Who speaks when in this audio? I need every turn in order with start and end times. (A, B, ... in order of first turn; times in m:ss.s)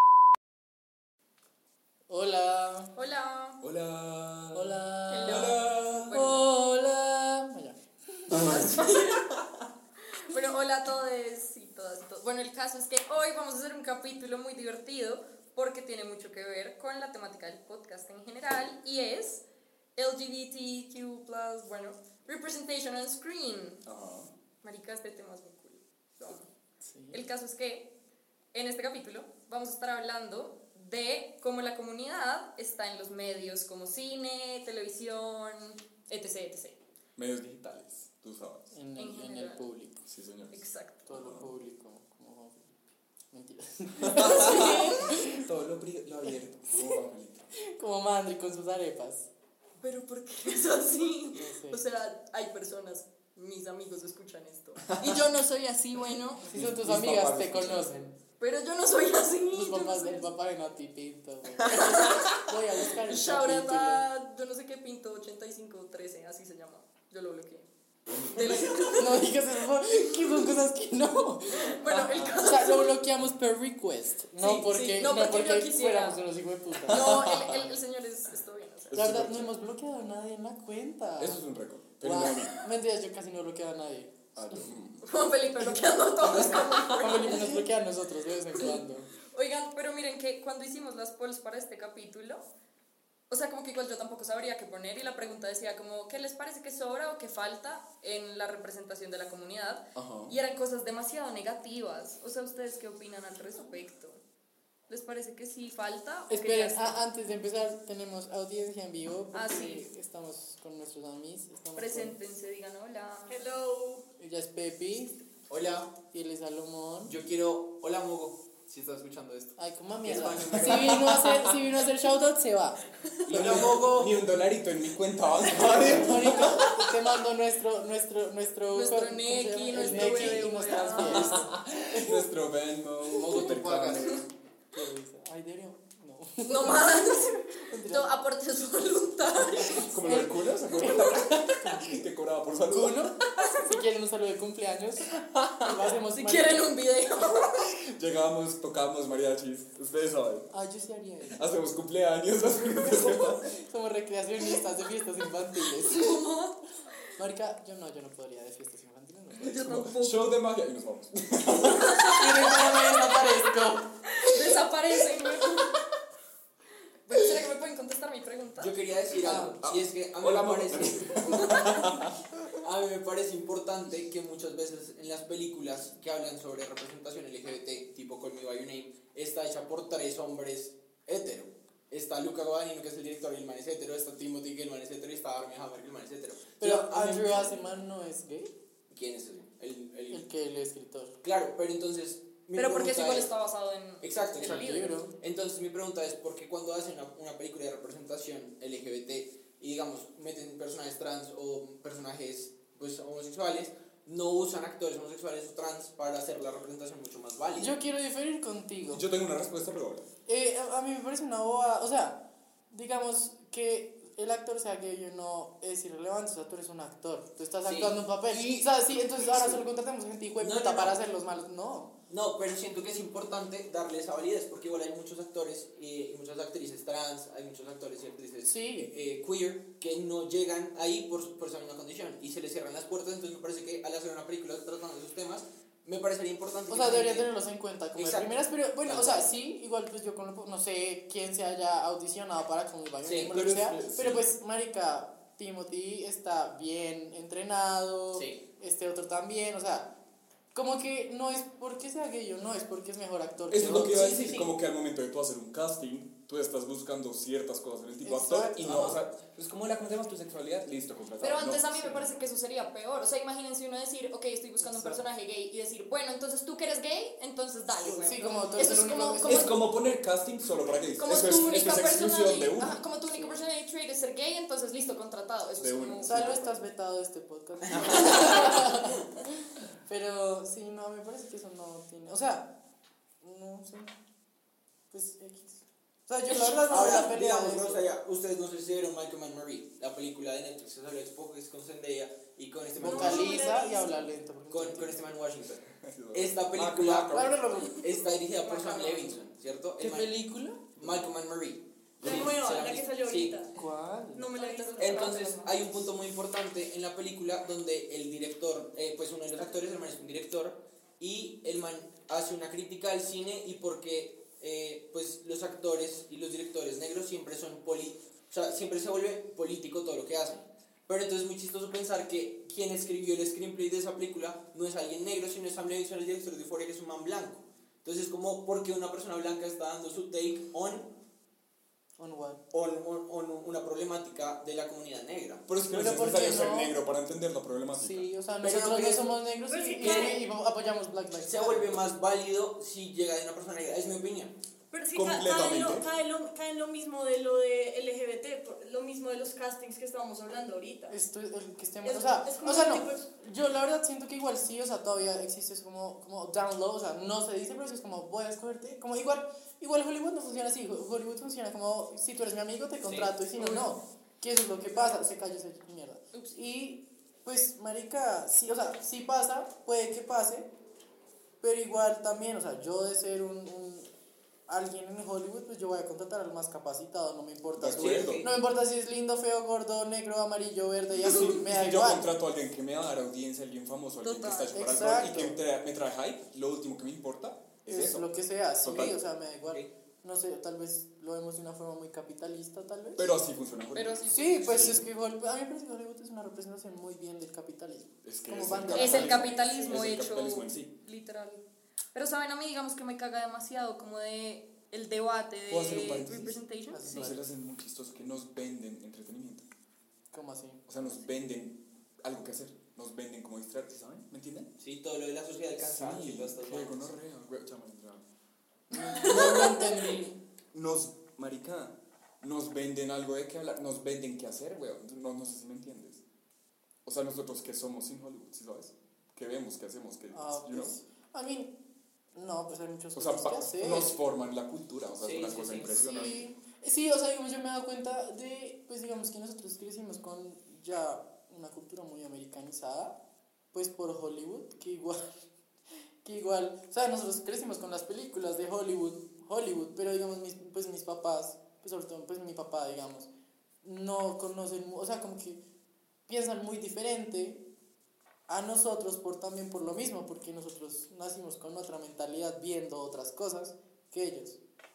0:02.1-0:02.9 A
0:03.0-0:03.6 B
0:03.6-0:06.2 C
0:04.5-0:08.7 A
0:05.1-0:06.5 B
0:08.4-0:09.3 B
0:10.2-0:19.4 B
0:20.0-0:23.8 B
0:23.9-0:24.3 C
0:24.6-0:26.5 B
0:26.8-0:27.2 A
0:27.1-0:27.9 B
0:28.5-0:36.8 B
0:37.2-0:38.8 C
0:38.7-0:40.1 A
0:39.0-0:39.7 B
0:40.1-0:41.5 C
0:40.5-0:41.1 B
0:41.1-0:42.8 A
0:43.3-0:45.4 A
0:44.0-0:47.5 C
0:44.4-0:45.0 B
0:44.5-0:45.0 D
0:46.2-0:47.0 A
0:47.6-0:49.3 A
0:49.8-0:56.4 B
0:51.3-0:51.8 A
0:54.9-0:55.2 C
0:56.5-0:58.2 A
0:56.5-0:57.9 C
0:58.4-1:00.3 B
0:59.5-1:04.0 A
1:01.6-1:02.4 C
1:01.8-1:02.2 B
1:03.1-1:07.7 B
1:08.2-1:09.3 B
1:09.0-1:11.8 A
1:11.5-1:13.0 B
1:11.9-1:12.4 C
1:12.4-1:17.7 A
1:14.4-1:16.2 B
1:16.9-1:19.0 B
1:16.9-1:17.2 C
1:18.9-1:19.5 C
1:18.9-1:21.4 A
1:21.2-1:22.6 C
1:22.0-1:24.6 A
1:24.4-1:25.0 C
1:25.0-1:27.6 B
1:26.2-1:29.1 A
1:29.3-1:32.4 B
1:33.3-1:44.2 B
1:40.0-1:40.4 C
1:44.9-1:47.0 B
1:46.3-1:52.2 A
1:49.3-1:49.9 B
1:51.8-1:53.6 B
1:53.3-1:54.1 D
1:54.2-1:55.2 A
1:55.5-1:55.9 E
1:56.1-1:57.2 A
1:57.1-2:01.2 E
1:59.6-2:02.8 A
2:00.1-2:01.6 C
2:03.3-2:04.2 E
2:03.3-2:06.8 C
2:05.6-2:12.3 A
2:08.7-2:11.5 B
2:09.8-2:14.3 C
2:13.1-2:14.0 A
2:14.7-2:18.1 A
2:16.4-2:20.0 B
2:19.8-2:23.5 C
2:20.0-2:21.9 A
2:22.7-2:26.7 A
2:25.2-2:25.7 C
2:26.1-2:27.6 B
2:27.5-2:30.5 C
2:30.5-2:31.4 A
2:31.3-2:33.5 C
2:32.7-2:36.1 A
2:35.8-2:36.6 B
2:37.2-2:39.6 A
2:39.4-2:40.3 B
2:39.4-2:42.2 C
2:41.6-2:42.6 B
2:42.1-2:43.9 A
2:44.1-2:45.7 B
2:47.1-2:48.8 B
2:48.6-2:51.2 E
2:49.2-2:49.6 A
2:49.6-2:52.5 C
2:51.2-2:52.0 B
2:52.6-3:07.5 E
3:06.6-3:08.5 A
3:08.9-3:10.2 E
3:10.1-3:11.1 A
3:11.2-3:13.3 E
3:12.6-3:15.0 B
3:14.0-3:27.7 E
3:14.4-3:15.1 A
3:27.6-3:29.1 A
3:28.9-3:30.1 C
3:30.3-3:41.9 A
3:37.6-3:38.7 E
3:40.4-3:41.0 E
3:42.1-3:57.3 E
3:48.5-3:48.9 A
3:56.7-4:09.9 A
3:58.0-3:59.3 E
4:03.0-4:03.3 E
4:03.3-4:04.3 C
4:08.1-4:08.4 E
4:10.5-4:14.5 A
4:13.5-4:22.2 C
4:13.6-4:14.4 E
4:18.0-4:19.0 A
4:18.6-4:18.9 E
4:21.2-4:29.5 B
4:24.6-4:25.0 A
4:27.8-4:29.5 A
4:29.2-4:32.8 C
4:31.0-4:36.2 B
4:33.2-4:33.4 A
4:35.6-4:36.6 C
4:36.0-4:39.0 A
4:37.6-4:38.7 E
4:38.0-4:38.4 B
4:39.8-4:42.5 A
4:43.2-4:43.9 A
4:44.9-4:47.8 A
4:46.7-4:53.5 E
4:52.8-4:55.1 A
4:52.8-4:54.0 D
4:54.5-4:55.6 E
4:55.4-4:57.4 C
4:56.1-5:00.2 E
4:57.1-4:57.9 A
4:58.4-4:59.2 B
4:59.8-5:00.7 A
5:00.8-5:01.0 C
5:00.8-5:03.4 E
5:02.0-5:02.3 C
5:02.0-5:03.6 D
5:03.6-5:04.4 A
5:04.2-5:05.2 D
5:04.2-5:05.7 B
5:04.8-5:30.9 E
5:32.0-5:32.4 A
5:32.5-5:35.5 E
5:35.5-5:38.1 C
5:35.7-5:36.8 A
5:37.7-5:41.8 A
5:38.4-5:39.1 E
5:39.5-5:40.2 D
5:39.8-5:40.1 E
5:41.2-5:44.4 E
5:44.7-5:51.0 D
5:44.9-5:45.9 C
5:50.9-6:10.5 A
5:51.8-5:53.1 D
6:02.8-6:03.1 E
6:03.4-6:03.7 B
6:06.1-6:06.4 B
6:11.4-6:13.9 A
6:14.5-6:22.1 A
6:17.6-6:18.3 C
6:17.7-6:18.3 E
6:21.1-6:29.0 C
6:24.0-6:24.6 B
6:24.5-6:25.4 A
6:27.7-6:33.1 A
6:33.0-6:34.8 C
6:33.7-6:34.8 B
6:34.1-6:39.4 A
6:38.0-6:40.7 C
6:38.8-6:41.4 B
6:39.4-6:39.8 D
6:41.9-6:47.1 B
6:45.5-6:49.4 C
6:46.7-6:47.3 A
6:50.1-6:50.6 A
6:50.7-6:54.5 C
6:54.6-6:57.0 E
6:55.6-6:58.0 C
6:58.7-7:00.2 A
7:00.5-7:06.0 C
7:06.8-7:10.8 C
7:10.1-7:11.6 A
7:12.1-7:14.0 A
7:13.0-7:16.2 C
7:15.0-7:15.8 E
7:15.6-7:23.0 A
7:23.5-7:25.2 A
7:26.0-7:33.1 A
7:33.6-7:35.4 A
7:36.1-7:37.4 A
7:38.3-7:44.4 A